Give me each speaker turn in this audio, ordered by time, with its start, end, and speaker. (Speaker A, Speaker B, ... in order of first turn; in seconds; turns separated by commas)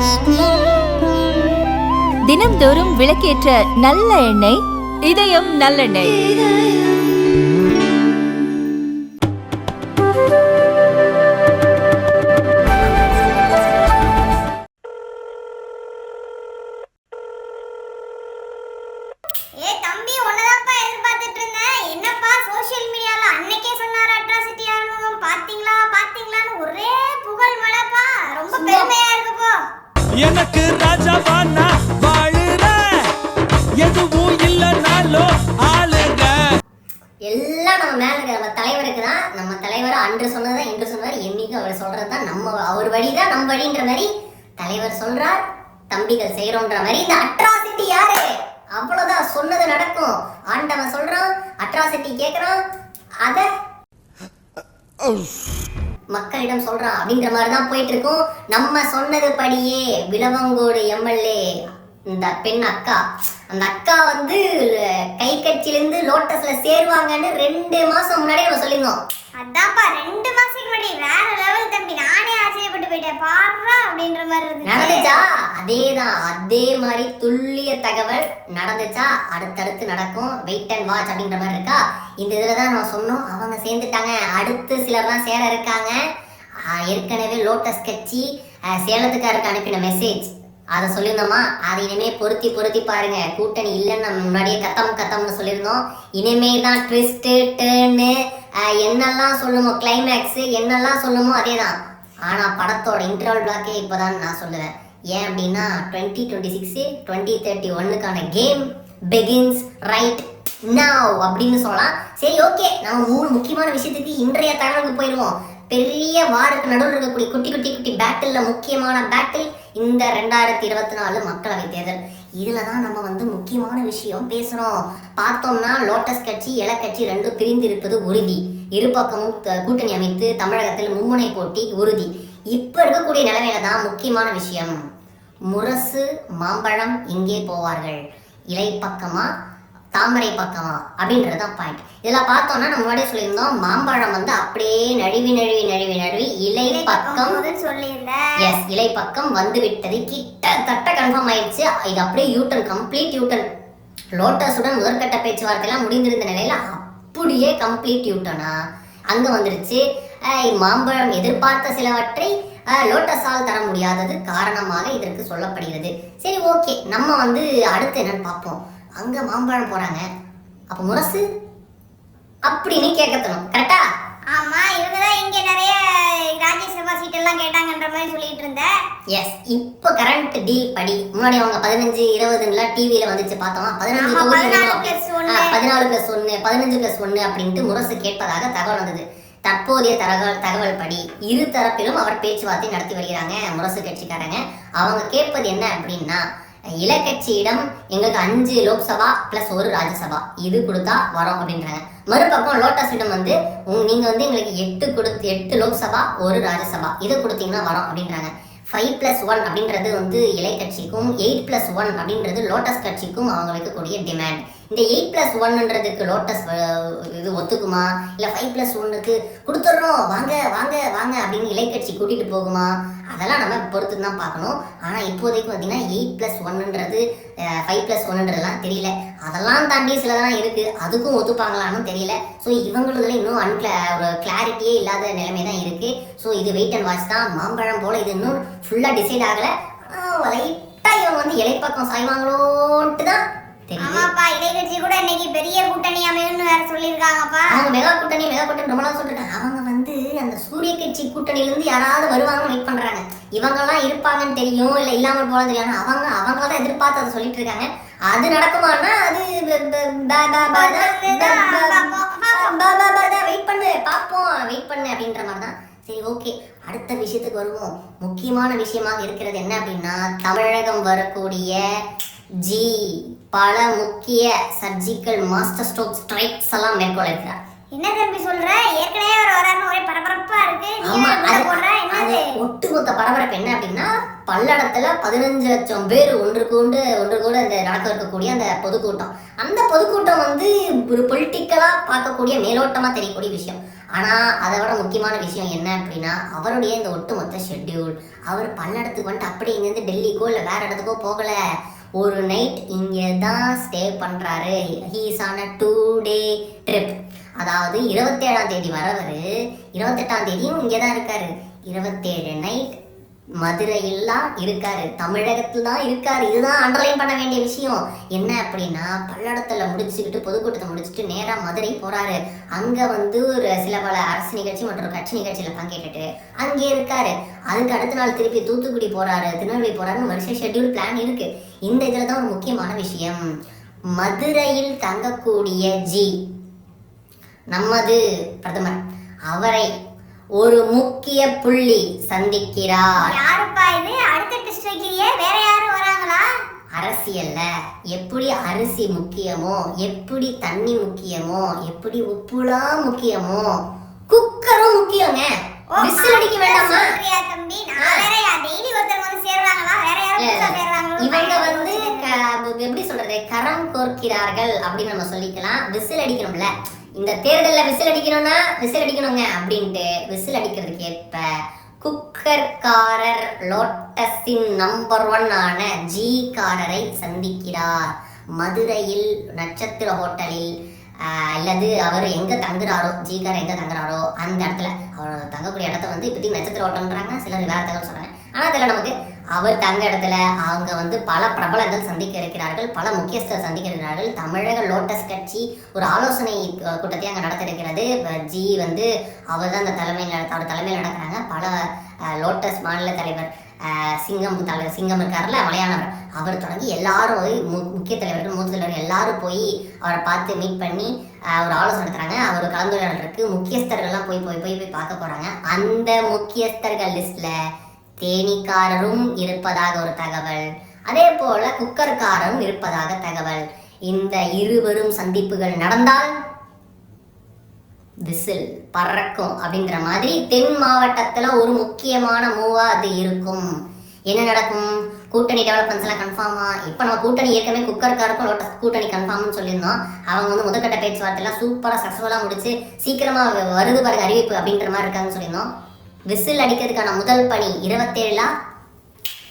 Speaker A: 2.3-6.2, Speaker B: 19.6-29.6, Speaker C: 28.5-28.9, Speaker D: 30.1-33.1, Speaker D: 33.8-36.6, Speaker C: 37.3-45.4, Speaker C: 45.9-52.6, Speaker C: 56.1-61.4, Speaker C: 62.1-69.0, Speaker B: 69.4-75.2, Speaker C: 74.6-86.0, Speaker C: 86.6-101.7, Speaker C: 102.2-134.8, Speaker C: 135.5-139.3, Speaker C: 139.9-147.4, Speaker B: 146.7-148.5, Speaker C: 148.4-153.4, Speaker C: 154.2-158.5, Speaker C: 159.1-170.0, Speaker C: 170.7-171.2, Speaker C: 172.4-173.8, Speaker B: 174.3-178.7, Speaker C: 179.1-196.2, Speaker B: 183.9-185.6, Speaker C: 196.8-244.1, Speaker B: 243.8-247.5, Speaker C: 247.5-271.6, Speaker B: 260.5-262.5, Speaker C: 272.4-277.4, Speaker B: 277.7-282.2, Speaker C: 280.8-301.4, Speaker C: 302.0-309.2, Speaker C: 309.8-312.8, Speaker C: 313.4-333.2, Speaker C: 334.0-336.1, Speaker C: 337.5-339.7, Speaker C: 340.4-343.1, Speaker B: 343.0-346.2, Speaker C: 346.8-353.6, Speaker C: 354.1-355.3, Speaker B: 355.7-362.1, Speaker C: 355.8-357.0, Speaker C: 357.8-358.1, Speaker C: 360.2-371.3, Speaker C: 371.8-377.8, Speaker C: 378.4-380.5, Speaker C: 381.0-417.3, Speaker C: 418.0-426.1, Speaker C: 428.1-433.4, Speaker C: 434.1-445.5, Speaker C: 446.1-448.3